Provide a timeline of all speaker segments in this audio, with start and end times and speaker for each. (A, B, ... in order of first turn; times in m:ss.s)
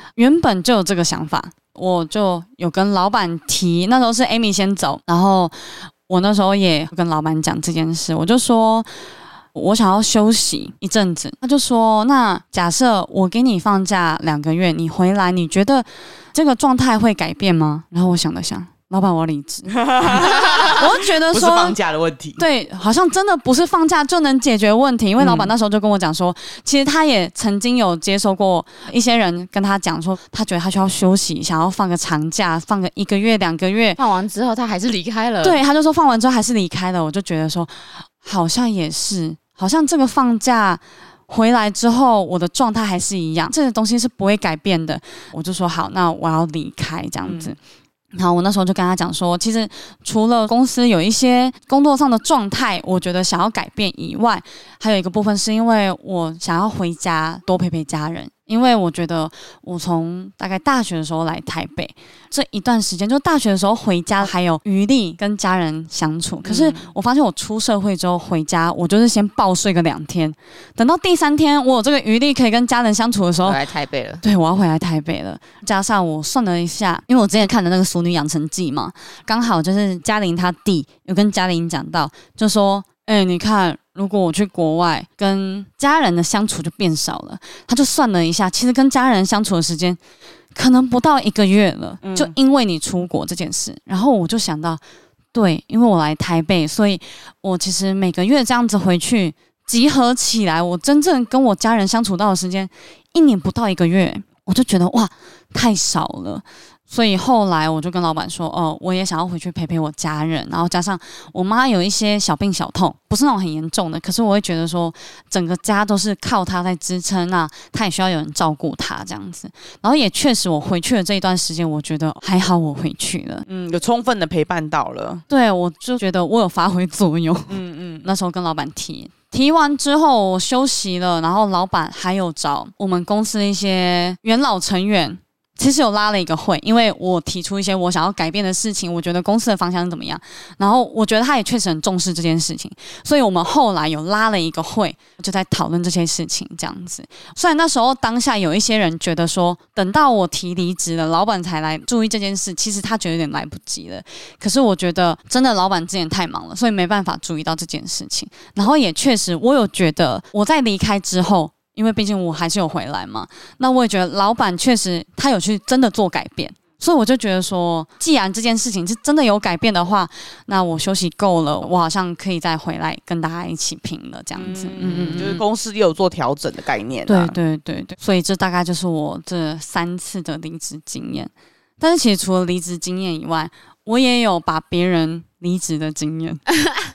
0:00.2-0:08.9 A
0:09.5-0:21.8 A
0:19.7-0:22.4 B
0:22.4-0:34.0 A
0:25.2-0:25.5 B
0:34.0-0:35.6 C
0:35.4-0:47.6 A
0:47.2-0:47.6 B
0:48.2-1:13.6 A
1:06.4-1:06.9 B
1:13.4-1:14.2 C
1:14.2-1:30.0 A
1:30.6-1:34.8 A
1:32.0-1:32.3 B
1:35.3-2:03.5 A
2:03.5-2:05.2 B
2:05.3-2:55.4 A
2:07.5-2:08.1 B
2:54.4-2:57.4 B
2:57.1-3:06.4 A